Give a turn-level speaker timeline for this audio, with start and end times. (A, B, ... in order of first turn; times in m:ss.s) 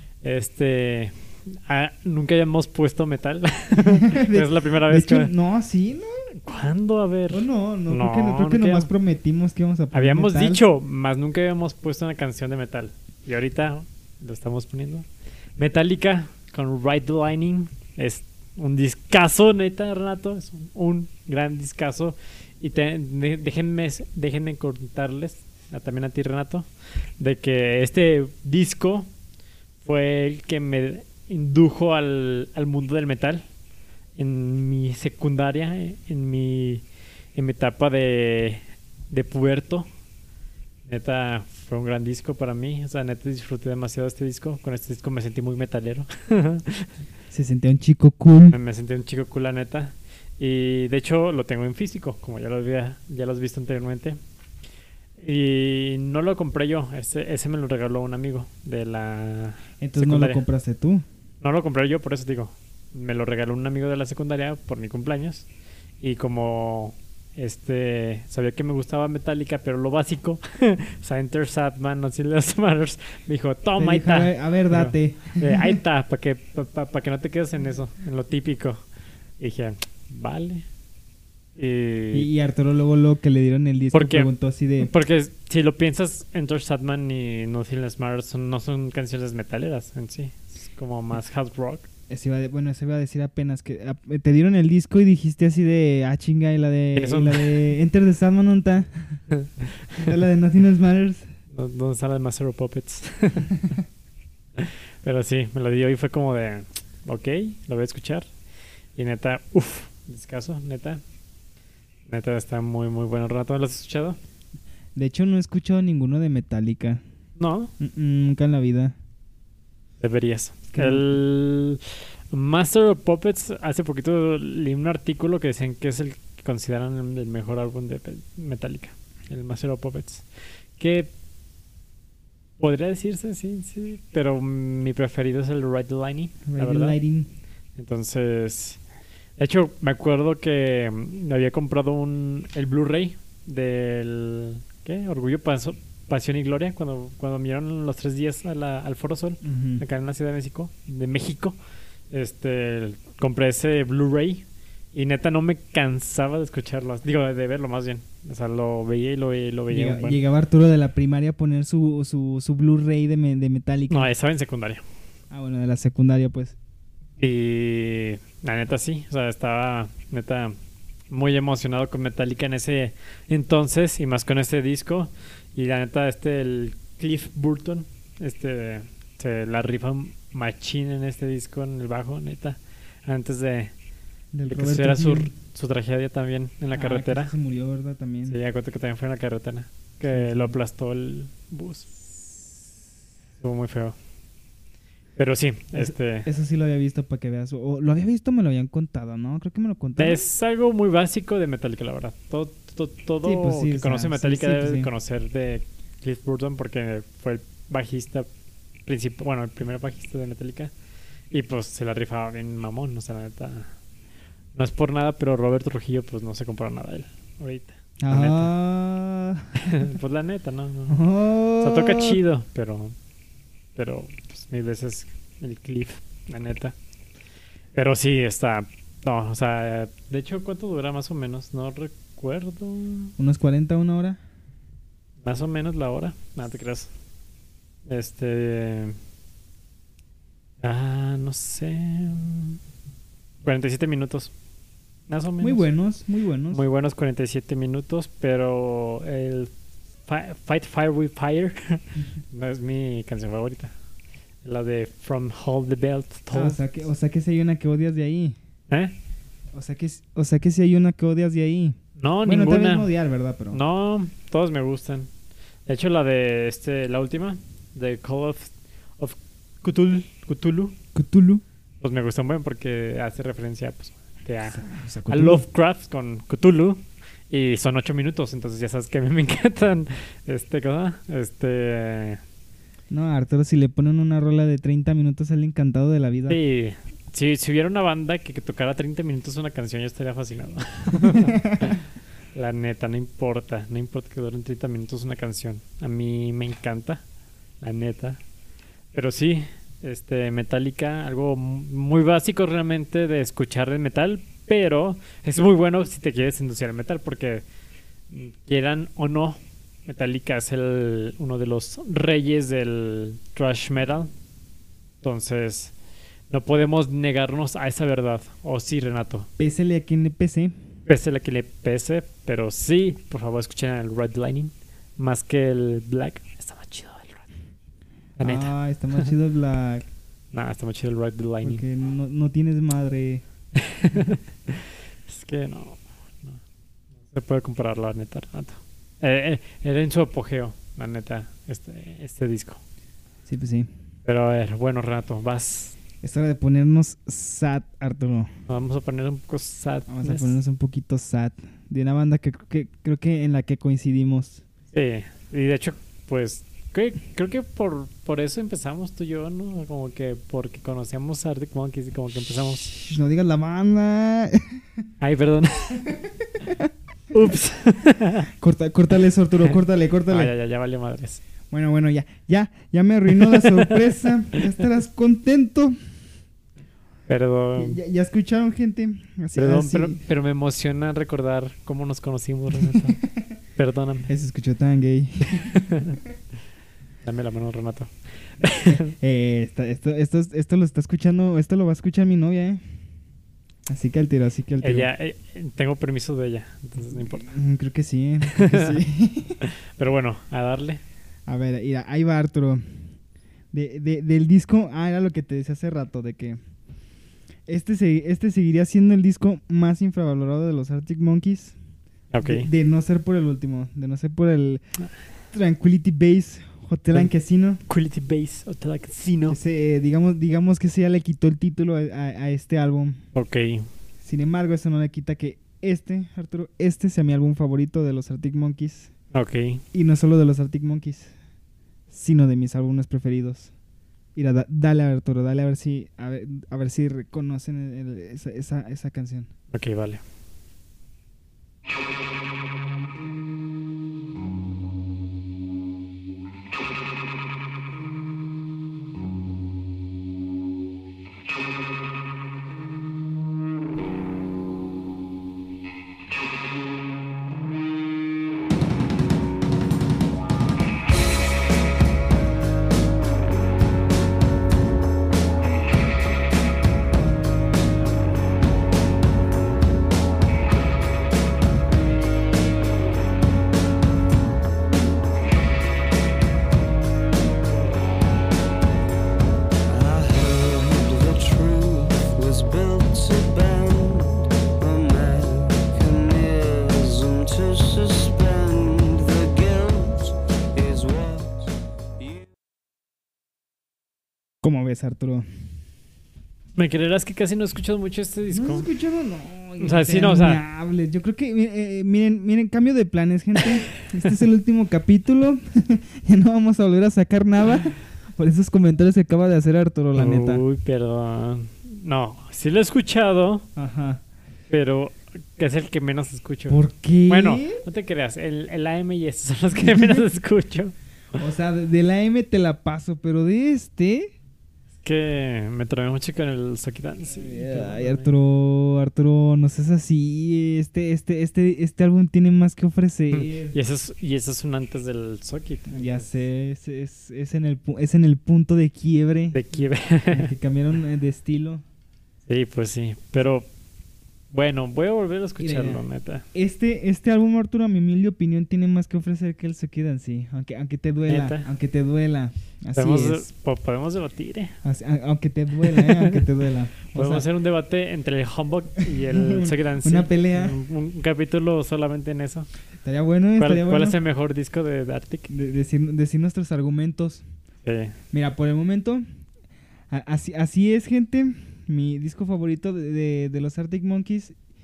0:00.2-0:05.3 A
0:03.8-0:06.2 B
0:06.4-0:08.9 A
0:07.3-0:10.6 B
0:09.9-0:15.1 A
0:15.6-0:26.7 A
0:27.2-0:29.1 A
0:29.8-0:33.4 A
0:34.2-0:39.9 A
0:40.9-0:46.9 A
0:47.3-0:48.6 B
0:48.5-0:54.2 A
0:55.2-1:00.4 A
0:59.8-1:01.0 B
1:01.4-1:05.5 A
1:06.0-1:18.8 A
1:13.8-1:15.8 B
1:19.4-1:20.6 A
1:21.6-1:22.3 A
1:22.1-1:24.9 B
1:23.9-1:31.9 A
1:32.1-1:39.2 B
1:37.0-1:37.6 A
1:40.0-1:41.3 B
1:41.5-1:43.6 A
1:44.6-1:48.3 A
1:49.0-1:51.0 A
1:52.1-1:54.2 A
1:55.0-1:57.0 B
1:57.4-1:57.7 A
1:57.8-1:59.0 B
2:00.0-2:10.2 A
2:00.7-2:01.2 B
2:10.8-2:11.1 A
2:12.6-2:17.0 A
2:16.5-2:17.3 B
2:17.8-2:18.8 A
2:19.4-2:31.6 A
2:29.4-2:29.8 B
2:32.1-2:40.2 A
2:39.7-2:44.1 B
2:43.9-2:44.8 A
2:45.3-2:46.6 B
2:47.2-2:50.6 A
2:51.1-3:03.7 A
3:04.3-3:05.3 B
3:04.5-3:07.3 A
3:06.7-3:08.4 B
3:08.2-3:12.0 A
3:10.0-3:10.6 B
3:13.4-3:14.0 A
3:15.2-3:16.3 A
3:15.8-3:20.2 B
3:20.0-3:28.3 A
3:23.2-3:24.9 B
3:28.9-3:30.7 A
3:31.3-3:33.7 A
3:34.6-3:38.5 A
3:38.0-3:39.9 B
3:39.6-3:41.0 A
3:40.9-3:42.2 B
3:41.6-3:43.0 A
3:43.8-3:46.8 A
3:47.7-3:53.1 A
3:53.2-3:54.2 B
3:55.2-3:56.9 A
3:57.9-3:59.0 A
4:00.6-4:02.6 A
4:03.4-4:04.3 A
4:05.1-4:05.7 A
4:05.4-4:06.6 B
4:06.5-4:09.5 A
4:10.1-4:13.7 A
4:14.4-4:16.6 A
4:16.3-4:18.4 B
4:19.5-4:23.6 B
4:22.0-4:22.9 A
4:23.5-4:25.1 A
4:25.7-4:30.8 A
4:30.9-4:31.4 B
4:31.8-4:42.2 A
4:34.4-4:35.4 B
4:42.9-4:46.4 B
4:46.3-4:51.8 A
4:51.0-4:51.7 B
4:52.3-4:57.0 A
4:57.6-4:58.2 A
4:58.9-5:07.4 A
5:08.1-5:14.1 A
5:15.0-5:15.7 A
5:16.3-5:19.3 A
5:19.4-5:20.6 B
5:20.9-5:27.3 A
5:28.2-5:29.1 A
5:28.2-5:29.9 B
5:30.3-5:31.6 A
5:31.4-5:33.2 B
5:33.6-5:36.4 A
5:37.1-5:42.6 A
5:43.3-5:43.7 B
5:44.1-5:45.8 A
5:46.0-5:48.3 B
5:48.5-5:50.4 A
5:49.9-5:54.4 B
5:54.7-6:02.7 A
6:02.8-6:04.8 B
6:05.0-6:05.8 A
6:07.1-6:08.3 A
6:08.4-6:10.3 B
6:10.1-6:11.2 A
6:11.5-6:15.8 B
6:13.3-6:13.7 A
6:17.1-6:17.8 A
6:17.6-6:20.0 B
6:19.3-6:23.0 A
6:22.5-6:22.9 B
6:23.6-6:24.1 A
6:24.1-6:25.6 B
6:25.5-6:26.0 A
6:27.0-6:28.9 A
6:28.6-6:32.6 B
6:33.7-6:34.9 B
6:34.6-6:37.3 A
6:36.9-6:39.4 B
6:38.4-6:38.7 A
6:39.5-6:40.8 A
6:41.3-6:42.6 B
6:43.5-6:46.4 B
6:47.5-6:51.6 B
6:52.1-6:52.5 A
6:52.2-6:54.6 B
6:55.3-6:57.6 B
6:57.7-6:59.4 A
6:59.3-7:03.0 B
7:03.1-7:03.7 A
7:04.0-7:08.9 B
7:09.1-7:09.6 A
7:09.7-7:11.1 B
7:11.9-7:13.5 B
7:14.2-7:19.3 B
7:19.5-7:20.0 A
7:59.7-8:12.2 C
8:14.4-8:15.3 B
8:16.6-8:18.7 A
8:18.3-8:30.4 B
8:19.6-8:20.4 A
8:30.0-8:33.5 A
8:33.6-8:34.0 B
8:34.5-8:40.8 A
8:36.5-8:37.6 B
8:39.7-8:40.0 B
8:41.2-8:44.1 B
8:44.8-8:48.1 A
8:47.1-8:53.6 B
8:53.1-8:56.1 A
8:55.7-9:01.6 B
8:59.3-9:00.3 A
9:02.3-9:03.5 A
9:04.3-9:06.2 A
9:05.4-9:13.3 B
9:11.1-9:11.5 A
9:12.8-9:14.6 A
9:14.6-9:17.3 B
9:15.6-9:16.2 A
9:16.9-9:22.5 A
9:18.9-9:20.6 B
9:22.8-9:24.0 B
9:23.4-9:25.3 A
9:25.3-9:27.2 B
9:27.6-9:28.0 A
9:28.1-9:29.0 B
9:29.9-9:34.4 B